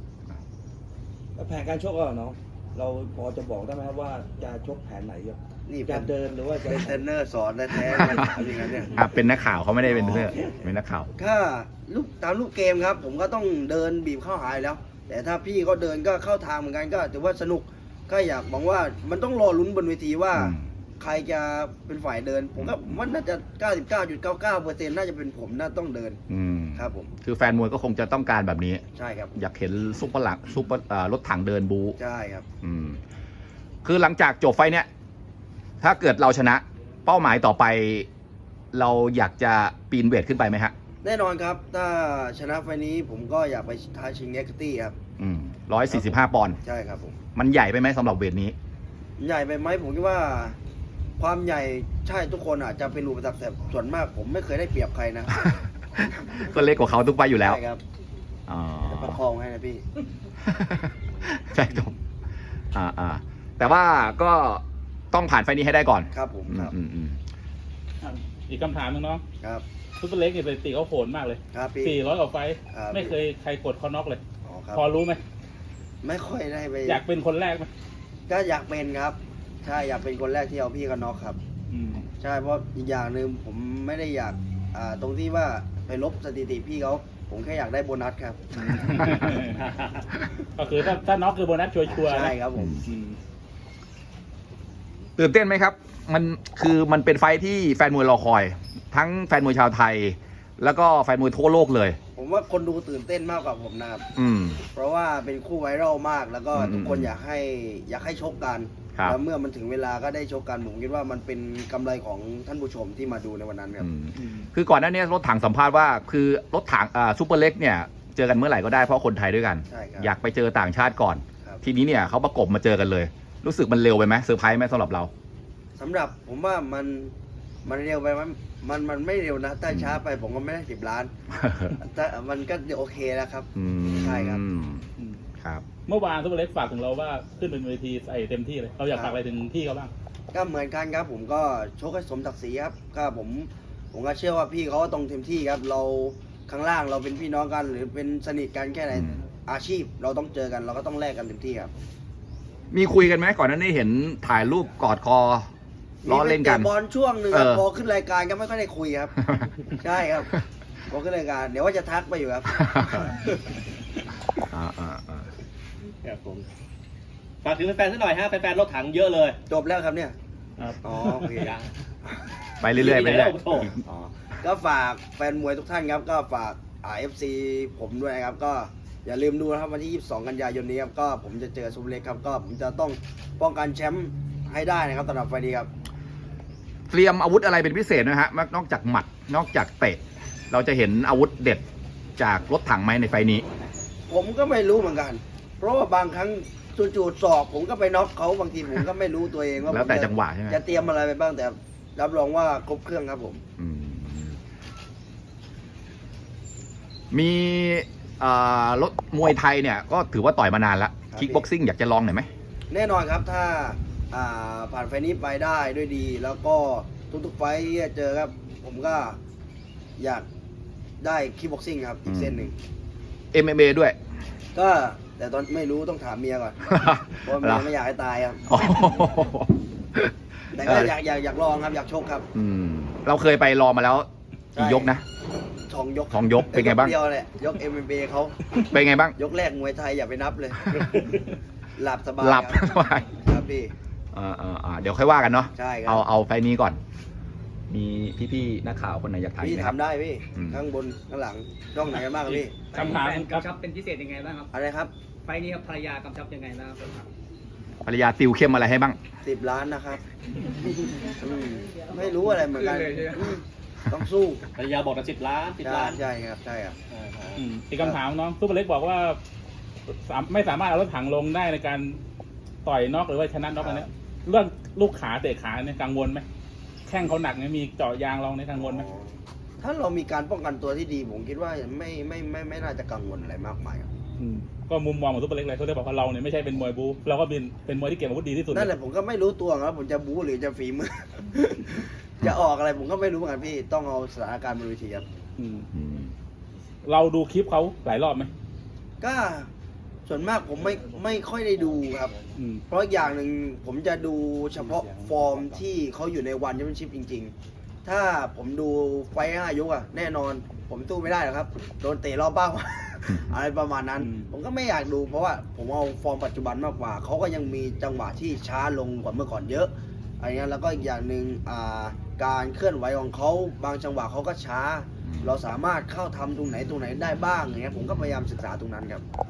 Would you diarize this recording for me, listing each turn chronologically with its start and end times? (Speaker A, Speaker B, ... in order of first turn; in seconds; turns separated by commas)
Speaker A: 1.4-7.0, Speaker B: 5.7-6.1, Speaker B: 6.8-8.9, Speaker A: 7.8-8.8, Speaker C: 8.9-11.1, Speaker A: 9.9-10.6, Speaker B: 11.2-26.2, Speaker C: 20.3-20.6, Speaker C: 26.3-28.8, Speaker B: 26.8-27.1, Speaker B: 28.9-29.3, Speaker C: 29.4-32.0, Speaker B: 32.0-32.4, Speaker C: 32.6-33.0, Speaker C: 33.8-34.9, Speaker C: 35.8-38.1, Speaker C: 38.7-40.7, Speaker B: 41.0-44.9, Speaker C: 45.2-46.6, Speaker B: 45.9-47.2, Speaker C: 47.4-48.5, Speaker B: 49.2-50.5, Speaker B: 51.2-55.4, Speaker C: 55.3-57.6, Speaker B: 57.4-57.8, Speaker C: 58.5-59.2, Speaker B: 58.9-59.8, Speaker C: 60.4-61.9, Speaker C: 62.7-67.2, Speaker B: 66.1-66.7, Speaker D: 68.0-69.2, Speaker D: 70.0-74.2, Speaker B: 71.5-72.0, Speaker B: 72.7-73.1, Speaker B: 74.4-74.8, Speaker D: 74.7-75.2, Speaker B: 76.0-77.0, Speaker D: 76.8-77.7, Speaker B: 78.3-81.4, Speaker D: 81.7-82.0, Speaker B: 82.2-88.9, Speaker D: 88.6-89.6, Speaker E: 89.6-90.0, Speaker D: 90.5-93.2, Speaker B: 91.9-92.8, Speaker C: 92.5-92.8, Speaker C: 95.2-102.0, Speaker B: 102.1-104.0, Speaker C: 104.2-104.6, Speaker B: 104.7-113.9, Speaker C: 106.5-107.1, Speaker C: 113.8-125.1, Speaker B: 119.7-120.1, Speaker B: 125.8-127.1, Speaker B: 127.6-131.1, Speaker C: 129.7-130.0, Speaker C: 131.3-131.8, Speaker B: 131.8-134.4, Speaker C: 133.6-134.9, Speaker D: 135.0-135.2, Speaker D: 135.8-139.9, Speaker B: 138.9-139.2, Speaker B: 140.3-151.7, Speaker C: 148.9-149.2, Speaker C: 152.7-155.5, Speaker B: 156.0-159.1, Speaker C: 156.0-156.7, Speaker C: 157.3-157.6, Speaker B: 159.8-160.3, Speaker B: 160.9-163.1, Speaker C: 162.5-163.1, Speaker C: 164.5-165.3, Speaker E: 166.0-166.4, Speaker E: 167.4-169.4, Speaker B: 169.5-170.1, Speaker D: 170.6-171.4, Speaker B: 170.8-171.6, Speaker E: 171.4-171.7, Speaker C: 172.6-173.8, Speaker E: 172.7-173.7, Speaker B: 173.8-185.7, Speaker C: 186.9-191.6, Speaker C: 192.2-193.4, Speaker B: 194.1-203.4, Speaker C: 199.7-200.6, Speaker C: 203.6-204.4, Speaker C: 207.1-212.3, Speaker B: 211.1-211.5, Speaker B: 212.7-219.2, Speaker B: 220.0-220.2, Speaker B: 221.0-222.5, Speaker C: 222.1-222.5, Speaker C: 223.3-223.9, Speaker B: 224.5-226.7, Speaker C: 226.7-227.7, Speaker B: 227.2-228.4, Speaker C: 228.5-230.9, Speaker B: 230.5-232.2, Speaker C: 232.3-235.0, Speaker B: 234.5-234.9, Speaker B: 235.7-238.4, Speaker C: 236.1-236.9, Speaker C: 238.6-239.1, Speaker B: 239.2-241.1, Speaker C: 240.7-241.0, Speaker B: 241.8-242.6, Speaker C: 242.2-243.1, Speaker B: 243.2-243.7, Speaker C: 244.1-246.8, Speaker B: 245.5-246.0, Speaker C: 247.7-249.8, Speaker B: 249.4-252.6, Speaker C: 250.3-250.6, Speaker D: 252.3-253.5, Speaker F: 252.7-254.5, Speaker B: 254.5-254.9, Speaker F: 255.2-257.1, Speaker C: 257.8-259.0, Speaker B: 259.2-260.0, Speaker B: 261.2-264.4, Speaker F: 262.1-263.4, Speaker E: 264.6-266.0, Speaker B: 265.6-266.8, Speaker E: 266.9-267.4, Speaker D: 267.4-269.2, Speaker D: 269.9-272.0, Speaker D: 272.6-276.2, Speaker D: 276.9-278.8, Speaker B: 278.6-283.9, Speaker D: 284.2-288.7, Speaker B: 288.5-295.0, Speaker D: 295.4-295.7, Speaker C: 295.7-296.1, Speaker D: 296.8-298.3, Speaker B: 299.0-299.5, Speaker B: 300.1-302.1, Speaker A: 300.7-301.4, Speaker D: 302.4-302.6, Speaker B: 302.7-307.3, Speaker A: 304.6-305.6, Speaker B: 307.8-329.0, Speaker C: 325.0-325.4